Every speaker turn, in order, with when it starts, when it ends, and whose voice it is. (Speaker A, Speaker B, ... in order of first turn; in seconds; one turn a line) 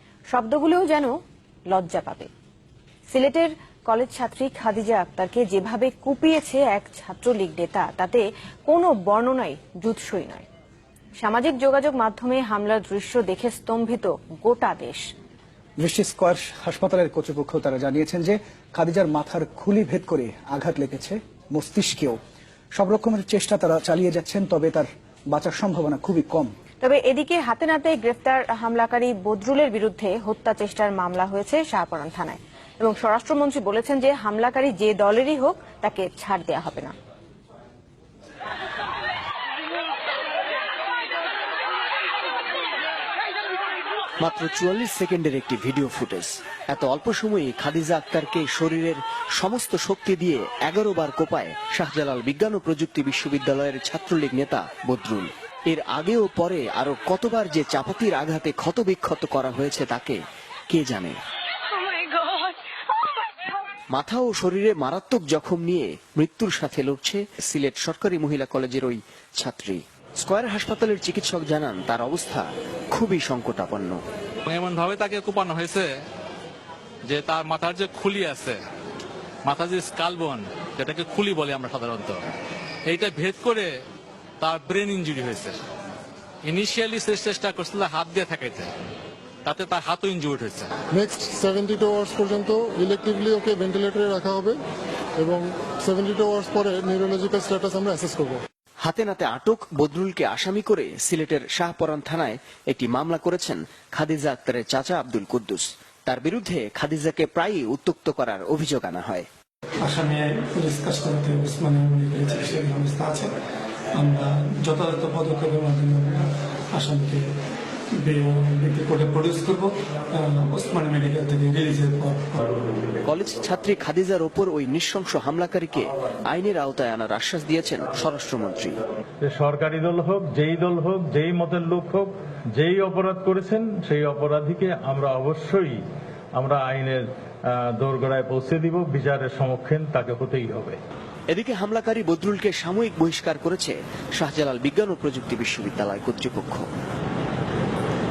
Speaker A: 0.3-1.1
Speaker A: 1.7-2.3
Speaker A: 3.1-10.4
Speaker A: 11.2-15.0
Speaker B: 15.8-22.2
Speaker B: 22.8-26.5
Speaker A: 26.8-36.9
Speaker C: 44.2-60.2
Speaker C: 60.7-61.2
Speaker C: 63.9-74.0
Speaker D: 74.5-75.9
Speaker D: 77.1-78.6
Speaker D: 79.5-82.2
Speaker D: 82.9-83.7
Speaker D: 84.4-85.6
Speaker D: 86.5-88.7
Speaker D: 89.5-90.7
Speaker E: 90.9-94.6
Speaker E: 95.2-98.4
Speaker C: 98.8-109.3
Speaker F: 109.8-113.3
Speaker F: 114.0-117.3
Speaker F: 118.0-122.8
Speaker C: 123.0-128.8
Speaker G: 129.2-135.8
Speaker G: 136.4-137.0
Speaker G: 137.8-140.8
Speaker C: 141.3-146.7